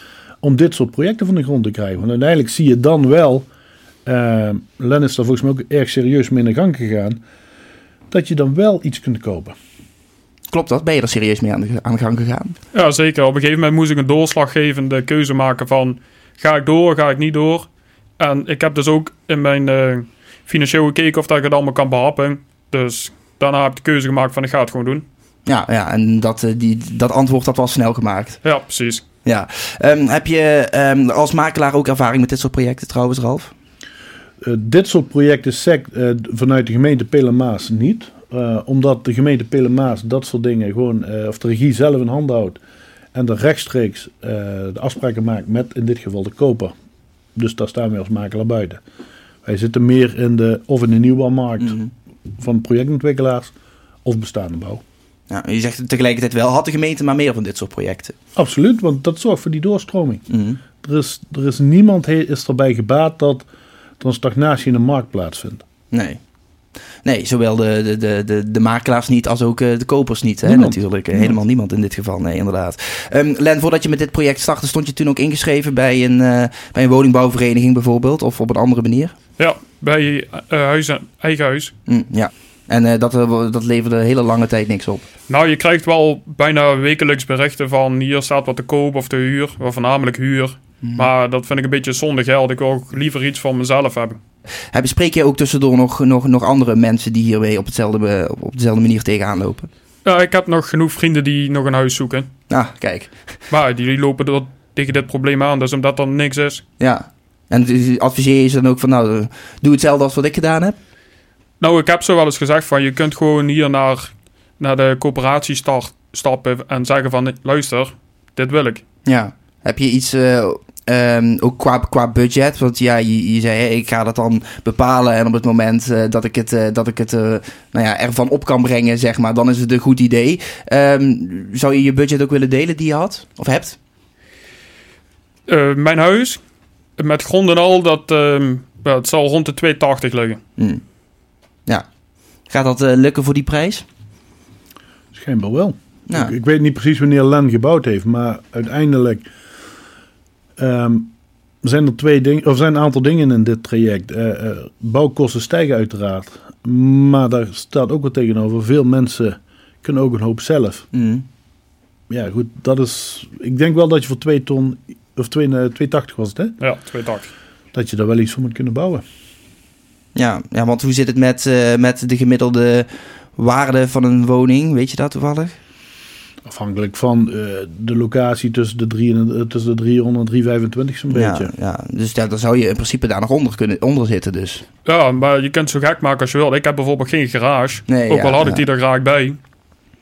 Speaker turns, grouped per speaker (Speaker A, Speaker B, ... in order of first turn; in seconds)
Speaker A: 0.4-3.5, 4.0-7.2, 8.1-9.6, 34.4-42.6, 43.1-46.7, 47.4-48.8, 49.4-51.8, 52.4-53.5, 54.0-54.8, 58.4-60.3, 60.8-63.5, 64.0-65.7, 70.5-71.4, 145.1-149.3, 150.6-160.9, 162.1-166.6, 167.7-169.0, 176.4-181.5
Speaker B: 10.5-12.6, 25.5-28.4, 29.2-33.5, 51.6-51.9, 55.3-58.1, 60.3-60.6, 65.9-66.2, 67.0-79.2, 81.9-85.0, 94.7-99.7, 102.5-103.3, 106.8-110.8, 119.0-133.8, 140.6-140.8, 142.5-143.8, 160.9-161.2, 170.2-175.6, 181.1-184.6, 187.9-188.6
Speaker C: 12.7-17.7, 18.2-25.1, 28.4-29.0, 79.4-81.7, 85.3-94.2, 100.0-102.3, 103.5-106.6, 111.6-118.8, 135.5-136.4, 137.0-140.4, 166.6-167.3, 184.9-189.4